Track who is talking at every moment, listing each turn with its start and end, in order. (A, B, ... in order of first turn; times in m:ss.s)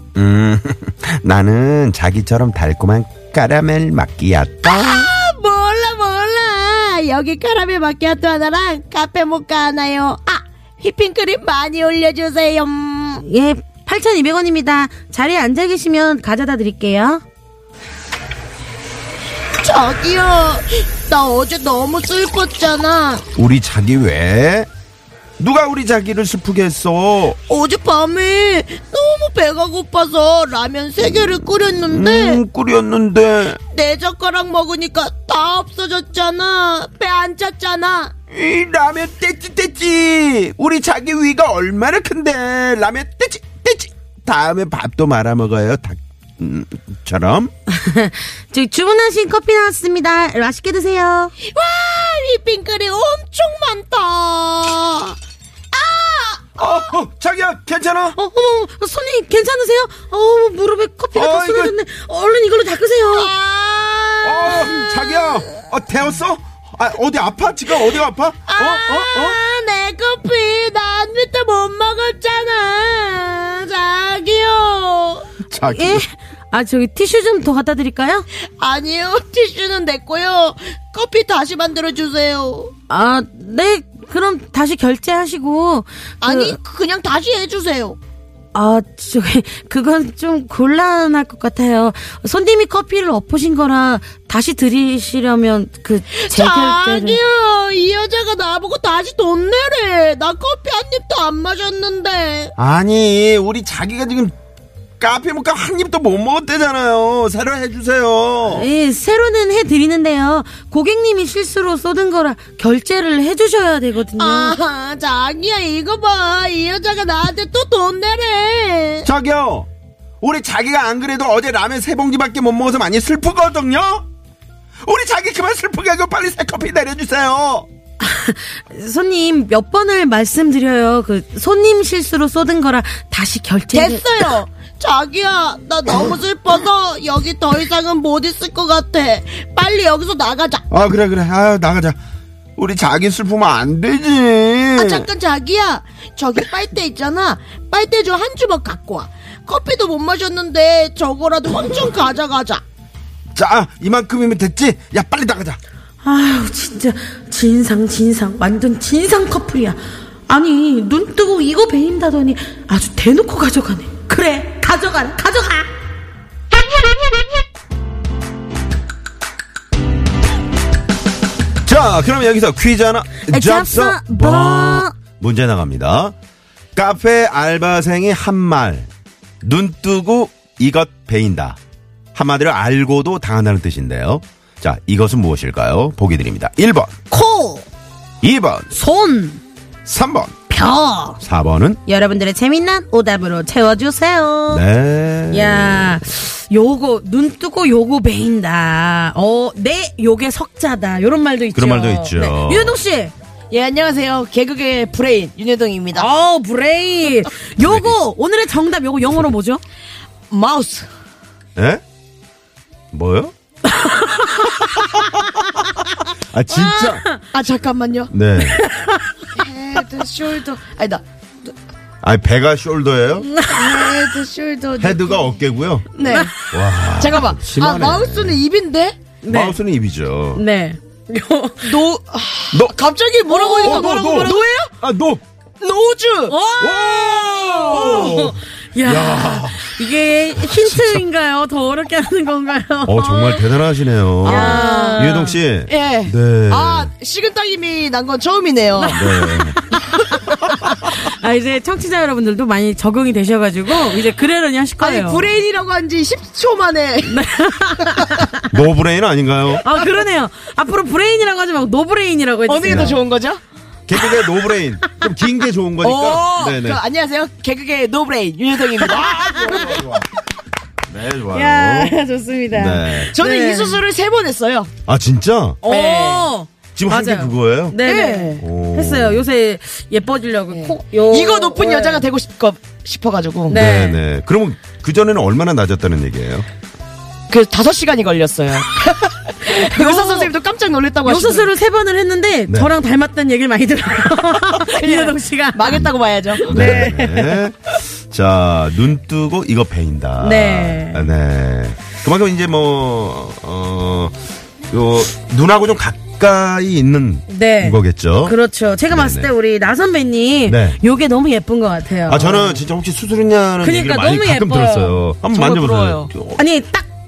0:00.2-0:05.1 A
0:04.6-0:13.2 B
0:13.2-0:17.2 C
0:19.6-0:23.2 B
0:23.4-0:24.7 A
0:25.4-0:27.4 A
0:27.5-0:32.4 B
0:31.9-0:33.6 A
0:33.7-0:38.1 B
0:38.3-0:47.5 A
0:47.7-0:51.3 C
0:51.5-0:55.2 B
0:55.7-0:56.6 B
0:56.6-0:58.2 A
0:58.1-1:03.3 C
1:01.1-1:01.7 A
1:03.1-1:05.5 B
1:04.2-1:09.4 A
1:08.5-1:15.3 B
1:15.5-1:16.0 A
1:15.6-1:18.3 C
1:18.6-1:22.7 B
1:22.9-1:26.6 C
1:26.2-1:28.0 B
1:28.5-1:37.2 C
1:36.2-1:42.5 B
1:42.6-1:44.4 A
1:45.0-1:48.7 A
1:48.4-1:54.6 C
1:54.2-1:59.1 B
1:59.0-1:59.7 A
2:00.2-2:04.1 A
2:04.8-2:07.7 A
2:08.0-2:14.3 C
2:13.7-2:20.6 B
2:20.7-2:22.0 A
2:22.6-2:25.1 A
2:24.8-2:32.6 B
2:33.4-2:35.6 A
2:36.0-2:45.7 C
2:51.6-2:56.1 A
2:53.3-2:54.9 C
2:56.8-2:58.9 A
2:59.4-3:01.6 A
3:02.1-3:06.9 A
3:07.1-3:07.7 C
3:08.2-3:08.7 A
3:08.7-3:09.4 C
3:09.9-3:10.3 A
3:10.5-3:11.2 C
3:11.2-3:11.8 A
3:11.9-3:14.6 C
3:14.5-3:16.0 A
3:15.3-3:23.1 C
3:21.6-3:22.8 A
3:23.5-3:26.1 B
3:26.0-3:29.6 C
3:27.6-3:28.0 A
3:30.3-3:30.9 B
3:31.6-3:31.8 A
3:32.9-3:33.3 A
3:33.7-3:35.2 C
3:36.3-3:37.0 A
3:36.5-3:37.2 C
3:37.3-3:38.1 B
3:38.1-3:38.6 A
3:38.4-3:39.2 C
3:39.4-3:41.5 B
3:42.0-3:43.3 A
3:43.2-3:44.0 C
3:43.5-3:45.3 B
3:44.8-3:45.9 A
3:46.0-3:46.3 B
3:46.0-3:46.5 C
3:46.5-3:48.4 A
3:47.0-3:49.0 B
3:49.2-3:49.6 C
3:49.3-3:50.4 A
3:50.3-3:51.7 C
3:51.6-3:54.8 B
3:53.3-3:54.4 C
3:53.6-3:55.2 A
3:55.6-3:56.4 B
3:56.3-4:03.3 C
3:56.6-3:59.8 A
3:57.5-3:57.8 B
4:00.4-4:01.0 A
4:02.9-4:06.9 A
4:04.2-4:09.0 B
4:04.2-4:05.4 C
4:08.8-4:10.0 C
4:08.9-4:09.6 A
4:10.6-4:15.3 C
4:14.8-4:17.2 B
4:17.1-4:18.5 C
4:17.8-4:18.2 B
4:18.5-4:19.7 A
4:19.6-4:23.0 C
4:22.5-4:23.4 B
4:22.7-4:23.0 A
4:23.9-4:26.8 A
4:25.8-4:29.8 B
4:29.0-4:30.1 A
4:29.0-4:29.8 C
4:30.9-4:32.0 A
4:31.3-4:33.8 C
4:32.5-4:33.1 A
4:33.1-4:34.7 B
4:34.9-4:35.6 A
4:35.6-4:42.0 C
4:35.6-4:36.3 B
4:36.8-4:37.8 A
4:37.8-4:38.4 B
4:38.4-4:39.3 A
4:40.5-4:43.6 B
4:43.5-4:44.0 C
4:43.5-4:46.5 A
4:47.3-4:51.5 B
4:49.7-4:50.3 C
4:51.0-4:57.4 C
4:52.5-4:52.7 A
4:54.5-4:56.6 B
4:56.5-5:04.2 A
5:00.2-5:01.1 C
5:04.7-5:08.4 A
5:07.3-5:12.6 C
5:08.9-5:09.3 A
5:10.5-5:10.8 A
5:12.1-5:16.4 A
5:13.6-5:15.0 C
5:15.3-5:16.1 B
5:16.4-5:16.9 C